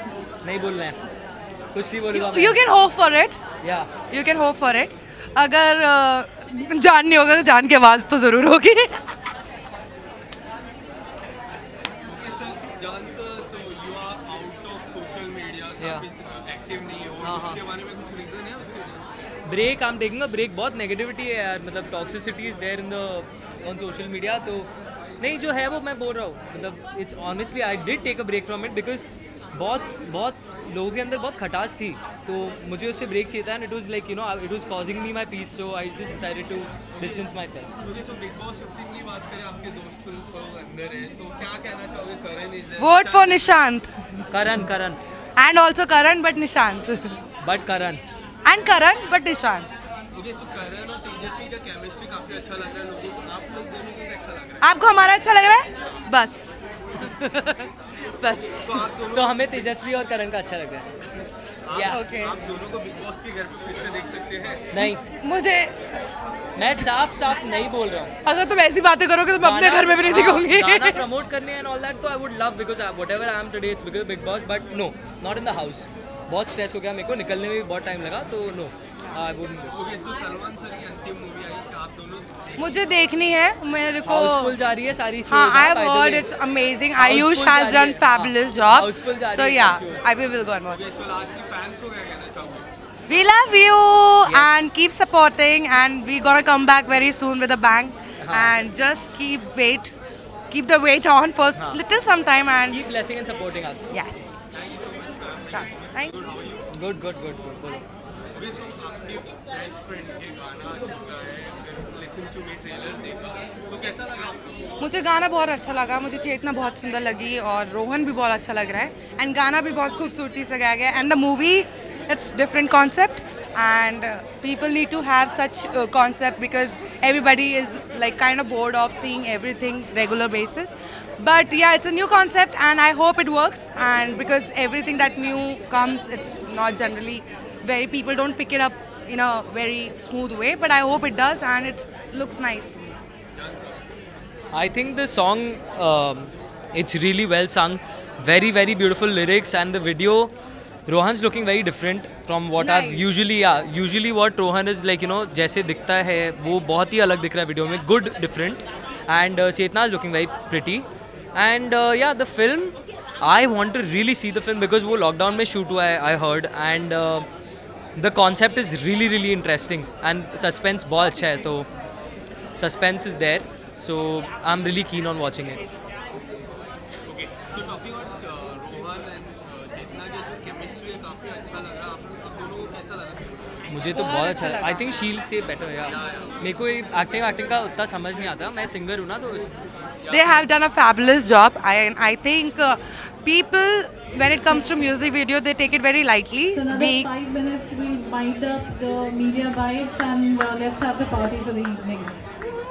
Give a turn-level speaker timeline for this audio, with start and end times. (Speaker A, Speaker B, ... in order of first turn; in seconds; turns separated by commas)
Speaker A: 0.4-1.0, Speaker A: 1.7-2.6, Speaker B: 2.1-3.4, Speaker A: 3.6-3.9, Speaker B: 4.1-8.9, Speaker C: 12.0-19.0, Speaker A: 15.8-16.1, Speaker A: 17.2-17.6, Speaker A: 19.4-24.7, Speaker A: 25.2-37.7, Speaker C: 37.0-37.3, Speaker C: 37.8-43.5, Speaker B: 42.8-44.1, Speaker A: 44.3-45.0, Speaker B: 45.4-47.2, Speaker A: 47.4-48.0, Speaker B: 48.4-49.7, Speaker C: 50.1-54.6, Speaker B: 54.6-58.8, Speaker C: 58.5-59.7, Speaker A: 59.1-60.9, Speaker C: 61.6-64.7, Speaker A: 61.7-62.0, Speaker B: 61.9-62.3, Speaker A: 64.7-65.0, Speaker B: 64.8-66.1, Speaker A: 66.5-68.1, Speaker B: 68.2-71.0, Speaker A: 69.4-79.7, Speaker C: 79.7-82.8, Speaker B: 82.6-84.6, Speaker A: 84.0-86.2, Speaker B: 85.3-90.8, Speaker A: 87.0-90.0, Speaker C: 90.7-92.7, Speaker B: 93.1-99.9, Speaker A: 94.2-94.7, Speaker A: 98.2-98.6, Speaker B: 100.5-102.8, Speaker A: 102.7-103.9, Speaker B: 103.9-104.3, Speaker C: 104.5-106.7, Speaker B: 105.5-106.1, Speaker A: 106.7-107.8, Speaker C: 108.3-114.7, Speaker B: 114.8-142.8, Speaker C: 143.3-143.8, Speaker A: 144.5-150.3, Speaker A: 150.9-167.2, Speaker B: 152.6-153.0, Speaker A: 168.0-171.7, Speaker A: 172.6-175.6, Speaker C: 177.1-183.4, Speaker A: 183.7-189.8, Speaker B: 183.9-185.0, Speaker C: 185.8-186.4, Speaker C: 190.0-190.5, Speaker B: 190.1-197.1, Speaker D: 196.5-202.3